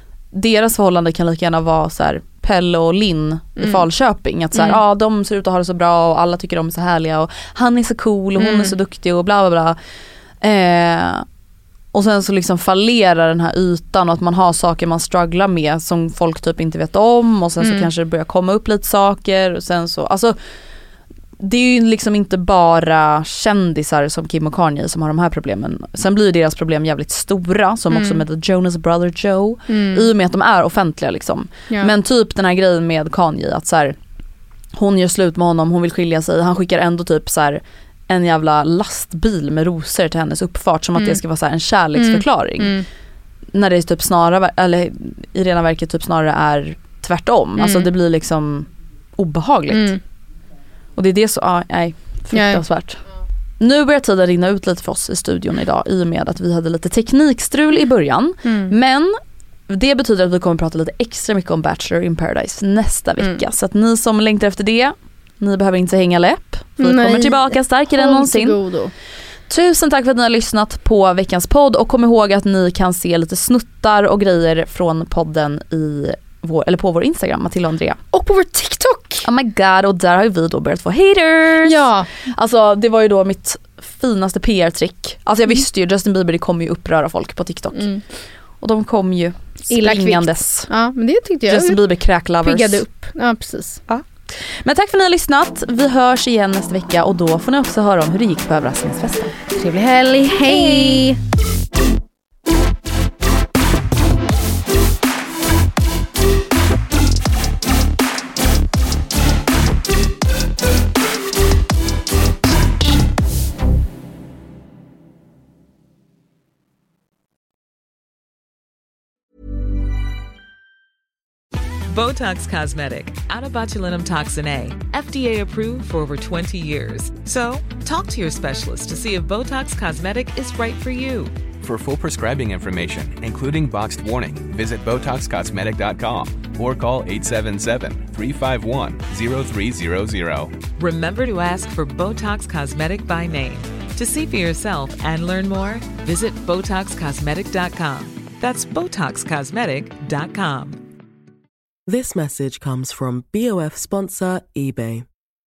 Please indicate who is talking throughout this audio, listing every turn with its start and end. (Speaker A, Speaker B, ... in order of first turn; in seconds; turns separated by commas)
Speaker A: 0.3-9.8, Speaker B: 4.5-4.8, Speaker B: 8.4-8.8, Speaker A: 10.4-11.2, Speaker A: 11.9-20.4, Speaker B: 17.6-17.9, Speaker A: 21.4-34.0, Speaker B: 27.9-28.2, Speaker B: 29.7-30.1, Speaker A: 34.7-42.8, Speaker B: 42.0-42.8, Speaker A: 43.5-49.9, Speaker B: 47.6-47.9, Speaker B: 49.7-50.0, Speaker A: 51.0-53.0, Speaker B: 52.3-52.6, Speaker A: 53.6-59.1, Speaker B: 58.4-58.7, Speaker A: 59.7-68.6, Speaker B: 66.8-68.9, Speaker A: 69.5-78.0, Speaker B: 78.1-79.2, Speaker A: 79.2-87.8, Speaker B: 81.6-82.1, Speaker B: 87.7-88.0, Speaker A: 88.6-90.7, Speaker B: 89.7-91.8, Speaker A: 91.5-92.8, Speaker B: 92.4-93.8, Speaker A: 93.9-99.4, Speaker B: 99.5-101.2, Speaker A: 100.5-101.0, Speaker C: 121.9-131.3, Speaker D: 131.6-140.5, Speaker C: 140.8-150.8, Speaker E: 151.9-155.1